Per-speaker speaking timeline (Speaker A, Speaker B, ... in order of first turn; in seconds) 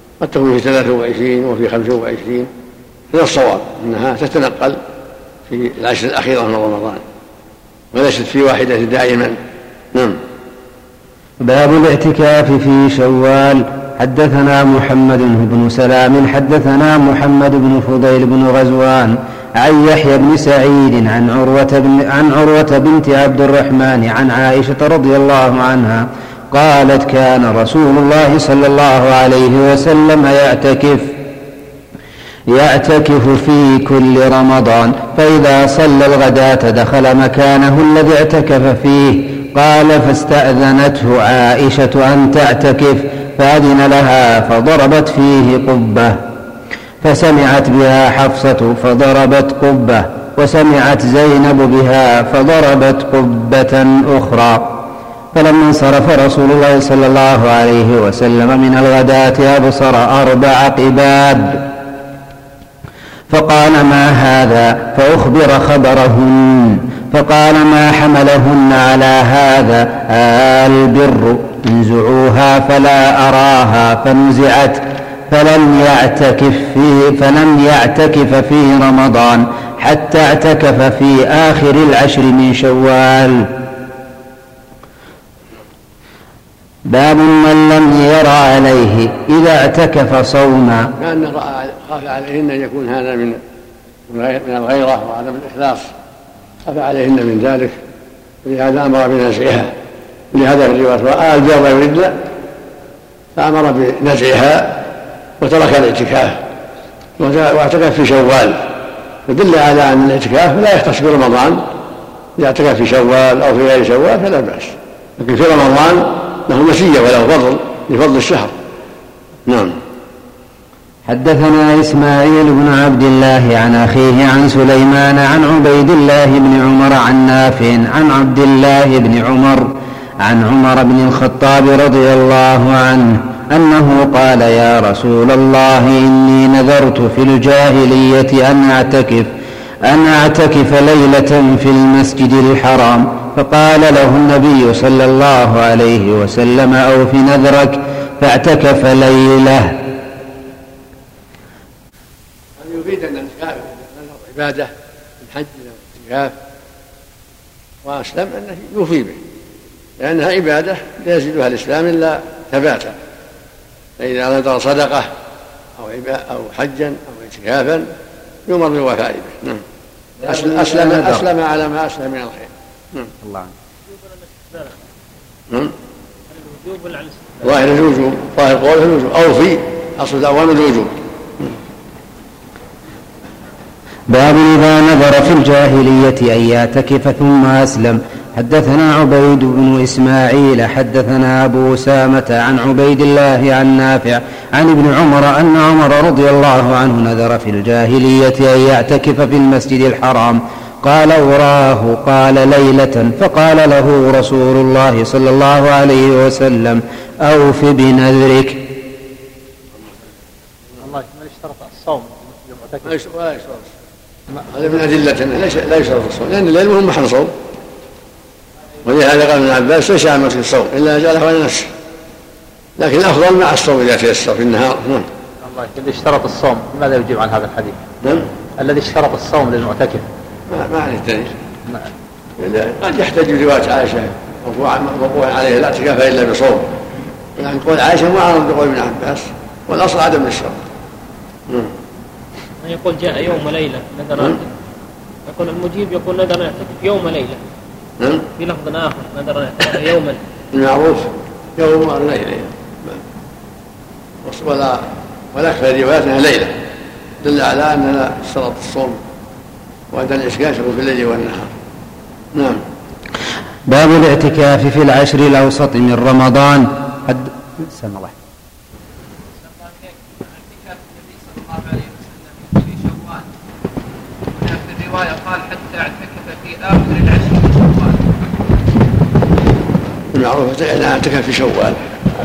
Speaker A: 0.2-2.5, 3.1-4.8, 5.5-7.0, 7.9-9.4, 9.9-10.2, 91.0-93.4, 94.1-95.9, 96.7-97.8, 98.4-99.7, 100.3-102.2, 103.4-104.8, 105.4-106.4, 107.2-108.7, 109.3-111.6, 112.4-118.5, 119.5-119.8, 152.6-156.3, 157.8-159.2, 160.0-163.0, 164.0-165.1, 165.8-167.9, 168.5-169.6, 170.2-173.1, 177.4-181.5, 212.8-213.7, 214.5-217.3, 218.8-221.7, 222.8-225.1, 228.0-228.3, 230.5-231.3, 232.4-236.7, 237.4-240.6, 248.0-248.3, 250.5-253.0, 254.2-256.6, 257.2-259.0, 259.9-261.5, 262.3-262.6, 280.1-281.9
Speaker B: 11.4-31.2, 32.5-46.2, 47.0-54.8, 55.3-61.6, 63.3-83.5, 86.9-90.9, 121.1-129.7, 130.2-139.3, 139.9-149.8, 173.2-173.5, 184.1-208.6, 263.7-268.1
Speaker C: 176.3-177.6, 242.6-244.5, 245.3-247.4, 248.4-250.2
Speaker D: 210.8-213.0, 225.4-227.8, 228.6-230.1
Speaker E: 269.4-273.3, 274.3-278.0